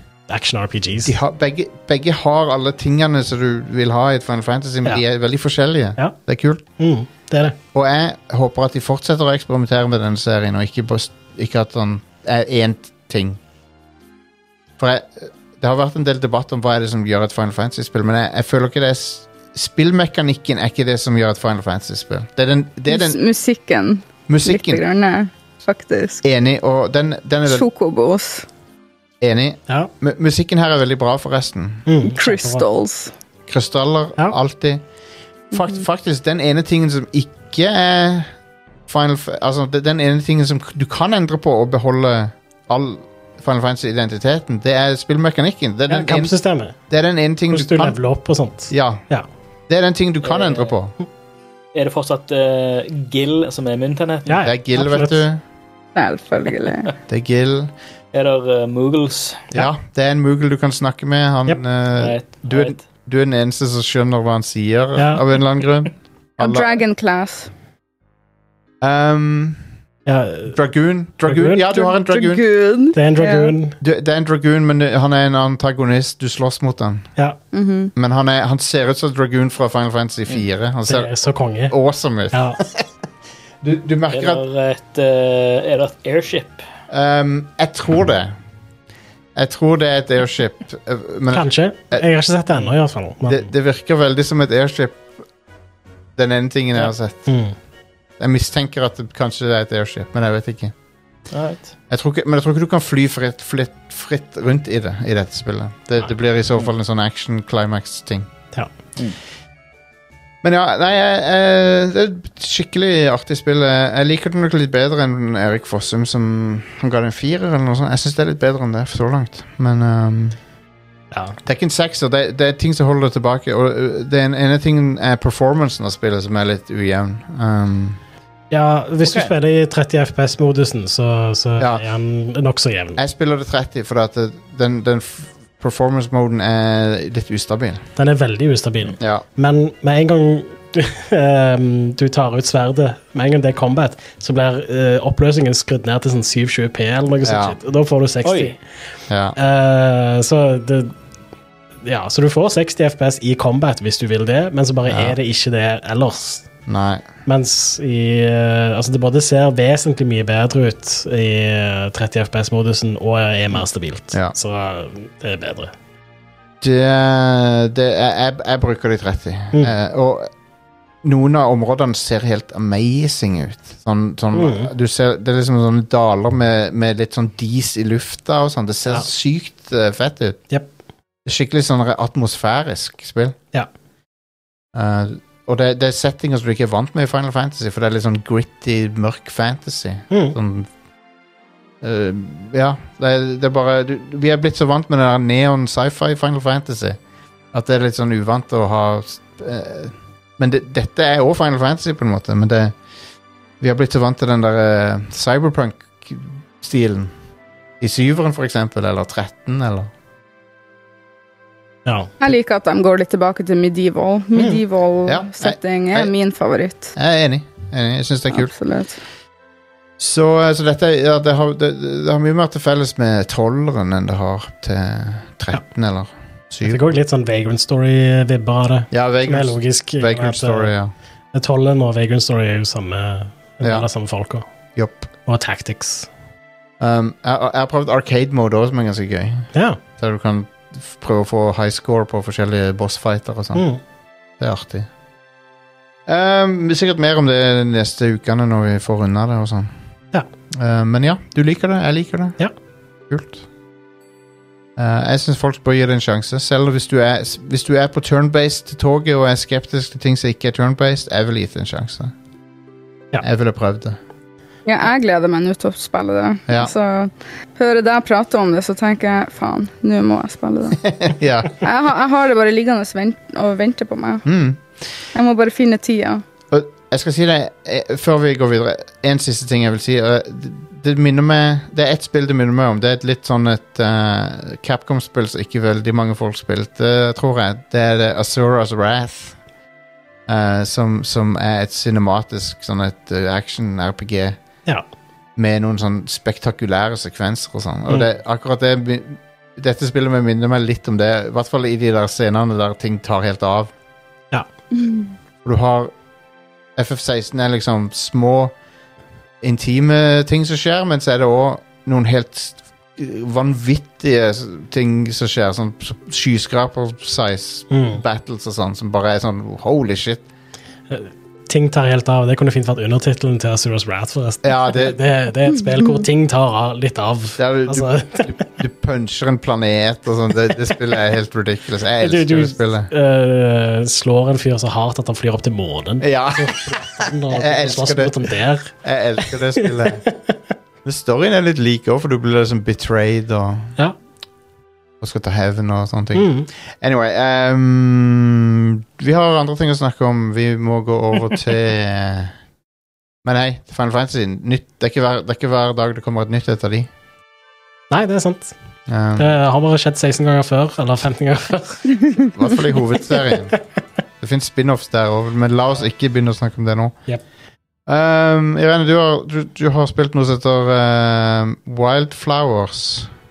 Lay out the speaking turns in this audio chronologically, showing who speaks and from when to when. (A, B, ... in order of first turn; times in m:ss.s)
0:00.3-0:01.2 A
0:01.0-0:06.6 B
0:06.8-0:07.6 A
0:07.7-0:13.4 B
0:14.8-0:23.2 B
0:22.9-0:26.2 C
0:24.3-0:24.8 B
0:26.2-0:27.7 B
0:27.4-0:28.5 C
0:29.2-0:31.9 B
0:31.9-0:32.7 A
0:32.0-0:33.1 C
0:33.5-0:34.8 B
0:35.5-0:38.3 B
0:35.5-0:35.8 C
0:38.9-0:46.3 B
0:45.9-0:46.8 A
0:46.9-0:48.0 B
0:47.5-0:49.3 A
0:48.7-0:49.0 B
0:49.7-0:50.9 B
0:50.2-0:50.7 D
0:51.8-0:54.4 D
0:54.3-0:55.2 A
0:54.4-0:55.4 B
0:56.0-0:56.9 C
0:57.1-0:57.7 B
0:58.1-0:59.5 D
0:59.5-1:06.8 B
1:02.0-1:02.8 D
1:05.0-1:05.2 A
1:06.4-1:07.5 C
1:08.8-1:09.6 B
1:10.1-1:10.6 A
1:10.5-1:12.4 B
1:11.2-1:11.7 A
1:11.8-1:13.5 C
1:12.9-1:13.8 A
1:13.8-1:17.1 B
1:17.5-1:17.9 C
1:18.0-1:21.1 B
1:20.9-1:21.8 A
1:21.7-1:22.9 B
1:22.3-1:22.6 A
1:23.6-1:24.4 B
1:24.1-1:26.6 D
1:26.9-1:28.4 B
1:29.4-1:32.0 B
1:31.3-1:33.5 A
1:33.2-1:35.1 B
1:36.2-1:37.3 B
1:37.3-1:37.5 A
1:38.2-1:40.7 B
1:41.3-1:41.7 D
1:41.9-1:48.3 B
1:50.4-2:00.4 B
2:01.5-2:08.0 B
2:08.5-2:13.0 A
2:09.0-2:09.3 D
2:11.6-2:11.8 B
2:13.0-2:17.8 B
2:18.0-2:28.6 A
2:19.0-2:19.2 B
2:27.2-2:27.6 B
2:28.2-2:28.5 D
2:29.1-2:29.4 B
2:29.4-2:30.9 A
2:31.8-2:36.5 A
2:34.9-2:35.2 B
2:36.7-2:37.1 B
2:37.3-2:45.7 A
2:43.5-2:44.4 B
2:46.6-2:50.3 B
2:51.0-3:00.4 B
2:54.3-2:54.7 A
3:01.3-3:03.4 B
3:04.7-3:10.7 B
3:10.1-3:10.4 A
3:11.8-3:17.0 B
3:17.5-3:22.8 B
3:23.6-3:27.1 B
3:27.8-3:29.9 B
3:31.9-3:32.1 A
3:32.2-3:36.9 C
3:35.1-3:36.1 B
3:37.0-3:38.5 B
3:38.3-3:39.0 C
3:40.0-3:47.0 B
3:46.6-3:50.7 A
3:48.9-3:50.9 B
3:51.3-3:54.4 A
3:54.8-3:55.1 B
3:55.3-3:56.1 A
3:56.8-4:03.7 B
3:59.5-3:59.8 A
4:03.6-4:03.8 A
4:04.4-4:04.9 B
4:06.1-4:09.7 B
4:10.6-4:12.4 B
4:13.1-4:13.4 B
4:14.8-4:22.1 B
4:23.2-4:24.0 B
4:24.7-4:30.8 C
4:26.5-4:26.7 B
4:30.8-4:31.6 B
4:31.6-4:34.3 C
4:34.2-4:34.9 B
4:35.1-4:36.2 C
4:36.5-4:49.4 B
4:50.3-4:54.4 B
4:55.4-5:03.7 B
5:04.8-5:05.0 C
5:05.4-5:05.9 B
5:06.8-5:08.5 B
5:09.4-5:20.2 B
5:17.7-5:18.0 A
5:20.9-5:28.4 A
5:24.4-5:25.0 B
5:27.4-5:32.9 B
5:32.0-5:38.7 A
5:36.0-5:40.0 B
5:39.3-5:40.3 A
5:40.8-5:43.7 B
5:45.0-5:52.3 B
5:46.2-5:46.5 A
5:53.2-5:56.9 B
5:57.9-5:58.5 A
5:58.9-5:59.3 B
5:59.2-6:02.3 A
6:02.3-6:03.6 B
6:03.1-6:03.6 A
6:04.2-6:07.0 B
6:07.9-6:13.1 B